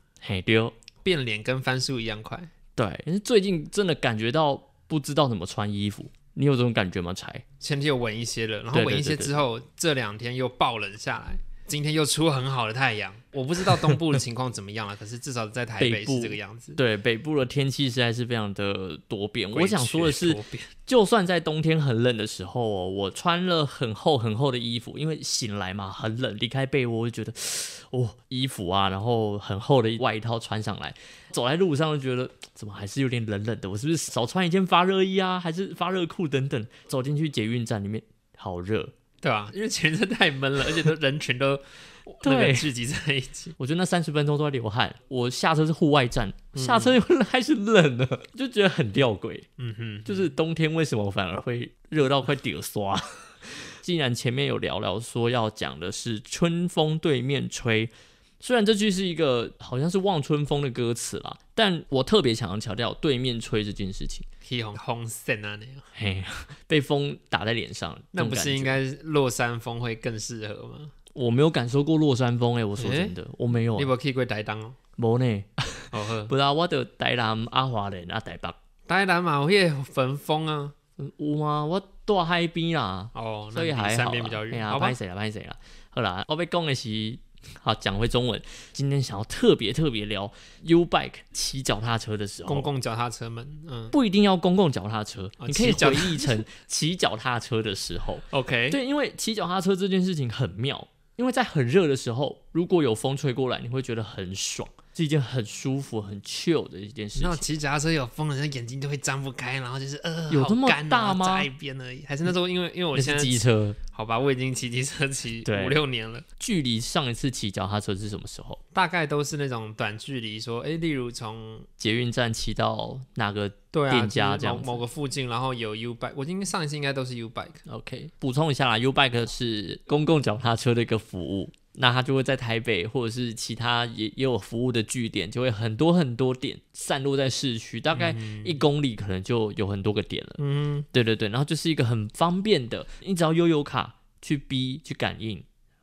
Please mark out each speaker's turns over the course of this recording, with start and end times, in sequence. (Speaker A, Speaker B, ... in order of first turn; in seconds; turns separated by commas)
Speaker A: 0.2-0.7, Speaker B: 1.0-2.5, Speaker A: 2.8-7.5, Speaker B: 7.6-16.8, Speaker A: 8.7-9.4, Speaker A: 15.8-38.9, Speaker B: 19.5-20.7, Speaker B: 39.2-43.5, Speaker A: 42.2-42.7, Speaker A: 43.6-49.5, Speaker B: 46.5-47.0, Speaker B: 49.6-50.3, Speaker A: 50.1-64.3, Speaker B: 64.4-65.9, Speaker A: 65.9-68.8, Speaker B: 68.1-70.9, Speaker A: 71.1-73.9, Speaker B: 72.8-73.2, Speaker B: 73.7-74.8, Speaker A: 75.0-78.6, Speaker B: 75.9-76.3, Speaker B: 78.9-80.8, Speaker A: 81.0-92.7, Speaker B: 83.1-85.0, Speaker B: 92.5-93.9, Speaker A: 93.9-107.5, Speaker B: 95.4-96.4, Speaker B: 98.3-98.8, Speaker B: 107.2-116.3, Speaker A: 110.3-111.5, Speaker A: 112.9-113.8, Speaker A: 115.5-115.8, Speaker A: 116.4-118.6, Speaker B: 118.8-121.7, Speaker A: 121.8-124.8, Speaker B: 123.7-127.6, Speaker A: 127.7-145.5, Speaker B: 137.9-138.6, Speaker B: 140.4-140.9